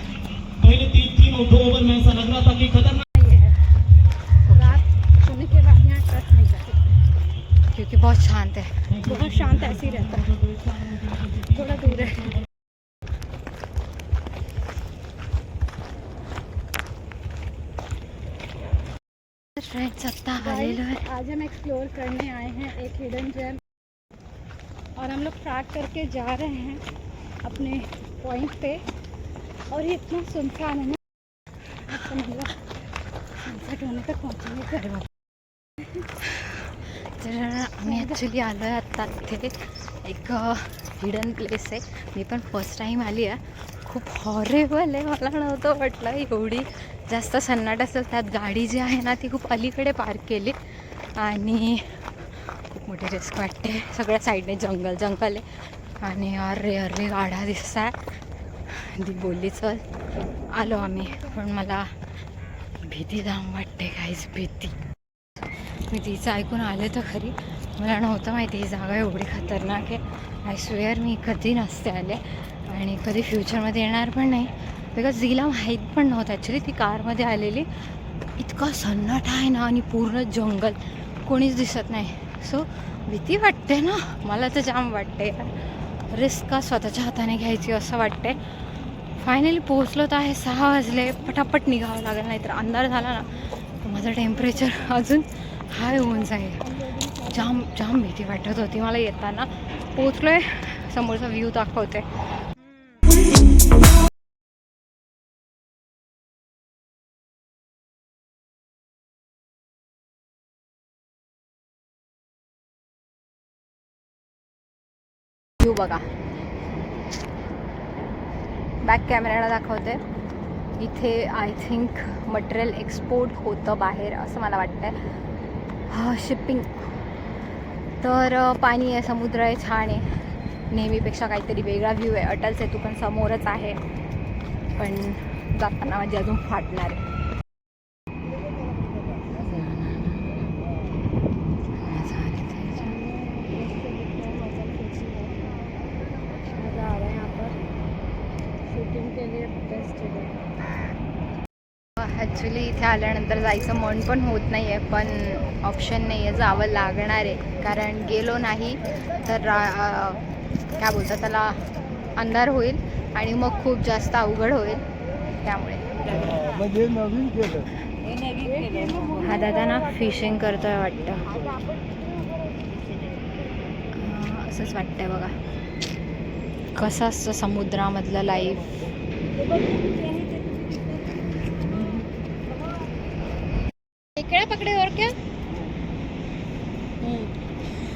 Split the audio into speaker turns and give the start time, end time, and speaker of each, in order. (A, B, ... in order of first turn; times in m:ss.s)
0:00.6-0:03.0 A
0:03.2-0:03.6 B
0:04.5-0:04.8 C
0:04.5-0:06.8 B
0:07.7-0:08.8 C
0:08.9-0:12.4 A
0:09.0-0:10.3 B
0:11.4-0:12.4 B
0:19.6-0:21.0 C
0:20.4-0:23.6 B
0:25.0-0:26.8 B
0:27.4-0:28.8 B
0:29.7-0:31.0 B
0:31.9-0:32.6 B
0:33.4-0:34.8 B
0:34.6-0:35.1 C
0:36.2-0:50.6 C
0:37.9-0:38.2 B
0:51.2-0:55.5 C
0:56.0-0:58.0 C
0:58.7-0:59.8 C
1:00.5-1:01.9 C
1:00.6-1:01.4 B
1:02.9-1:04.8 C
1:05.9-1:17.7 C
1:18.4-1:28.4 C
1:29.2-1:36.7 C
1:33.9-1:34.9 B
1:36.4-1:37.7 B
1:37.2-1:42.1 C
1:55.6-1:56.0 C
1:58.8-2:00.0 C
2:00.8-2:05.0 C
2:05.9-2:06.7 C
2:08.0-2:10.1 C
2:10.7-2:13.8 C
2:14.8-2:17.0 C
2:19.3-2:20.6 C
2:21.8-2:23.0 C
2:22.8-2:25.5 B
2:26.4-2:27.6 B
2:28.7-2:30.4 B
2:32.0-2:40.2 C
2:40.8-2:41.6 C
2:42.2-2:46.6 C
2:48.3-2:49.2 B
2:49.1-2:51.4 C
2:54.0-2:55.3 C
2:56.8-2:58.7 C
2:59.4-3:01.4 B
3:04.2-3:05.2 B
3:07.0-3:07.3 B